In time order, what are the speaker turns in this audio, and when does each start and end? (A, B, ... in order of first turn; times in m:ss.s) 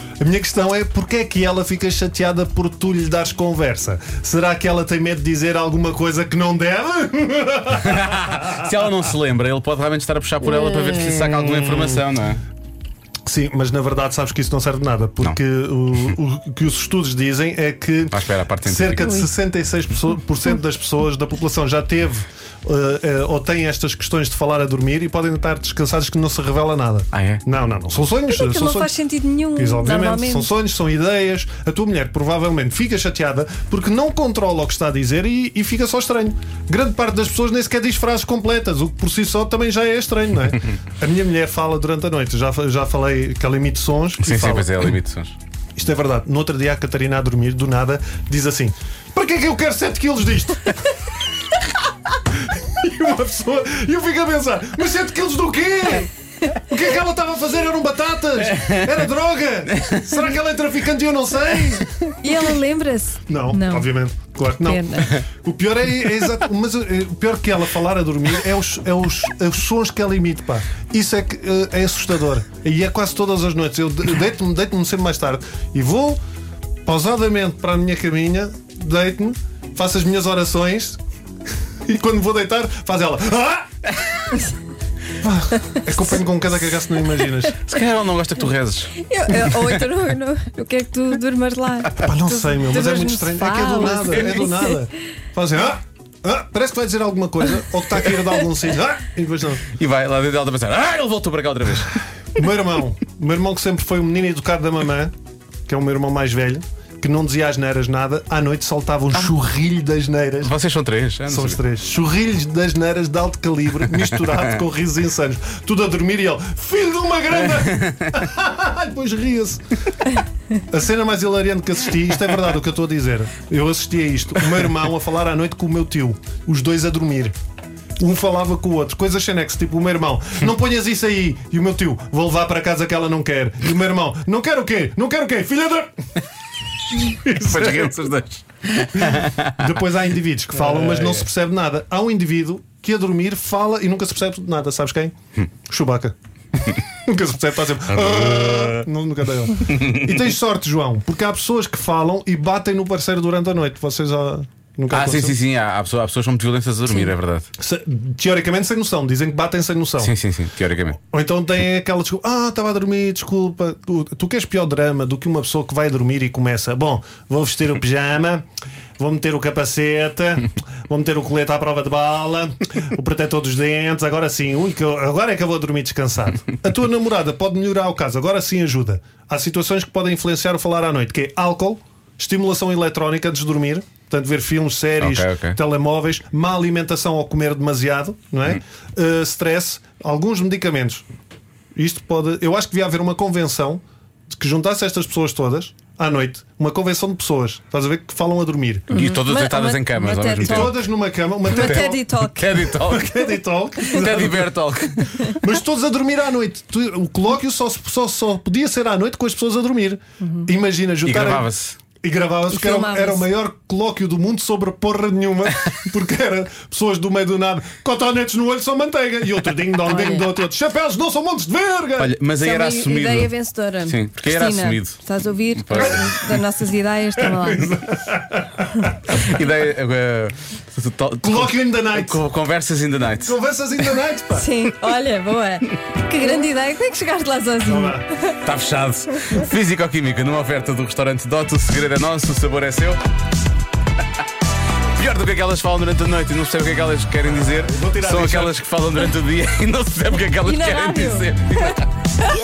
0:00.2-0:08.6 A
0:07.8-0:12.4 B
0:10.9-0:12.0 A
0:13.3-0:28.9 A
0:18.1-0:19.2 B
0:19.0-0:19.3 C
0:27.1-0:27.4 B
0:28.3-0:30.5 C
0:29.6-0:44.9 A
0:44.2-0:45.4 B
0:45.8-0:51.0 A
0:52.3-1:01.9 A
0:58.5-0:58.9 B
0:59.7-1:00.2 B
1:02.2-1:03.9 C
1:03.3-1:16.2 A
1:04.6-1:05.2 C
1:16.8-1:21.0 A
1:21.8-1:23.8 A
1:25.2-1:27.6 A
1:27.7-1:29.8 B
1:29.0-1:34.8 C
1:32.0-1:39.7 A
1:39.7-1:42.0 B
1:42.4-1:45.1 A
1:45.7-1:50.5 A
1:50.4-1:51.6 B
1:51.3-1:59.6 A
1:57.7-1:58.2 B
2:00.7-2:07.4 A
2:08.0-2:16.0 A
2:17.0-2:18.1 A
2:17.4-2:19.7 B
2:19.0-2:25.2 A
2:20.6-2:21.2 B
2:25.7-2:26.2 A
2:26.7-2:35.4 A
2:27.9-2:28.8 B
2:29.7-2:30.2 B
2:34.9-2:37.5 B
2:37.6-2:40.2 A
2:40.0-2:41.0 B
2:41.0-2:48.5 A
2:49.0-3:11.0 A
3:05.0-3:05.6 B
3:11.8-3:18.9 A
3:18.9-3:20.8 C
3:18.9-3:20.8 B
3:20.4-3:22.0 A
3:21.5-3:22.5 C
3:21.5-3:23.3 B
3:22.7-3:24.5 A
3:23.8-3:25.1 B
3:25.4-3:31.5 A
3:30.2-3:30.5 C
3:31.0-3:31.8 B
3:32.0-3:42.2 A
3:32.5-3:33.3 C
3:39.9-3:40.3 C
3:42.0-3:43.3 B
3:42.4-3:47.7 C
3:43.8-3:45.0 B
3:45.6-3:46.0 B
3:45.8-3:46.2 A
3:47.2-3:49.2 A
3:49.1-3:53.4 B
3:51.2-3:52.2 A
3:53.2-3:54.5 A
3:54.3-3:58.0 C
3:57.7-3:58.0 A
3:58.4-4:03.0 B
4:05.0-4:11.9 B
4:07.2-4:08.6 A
4:10.4-4:11.3 C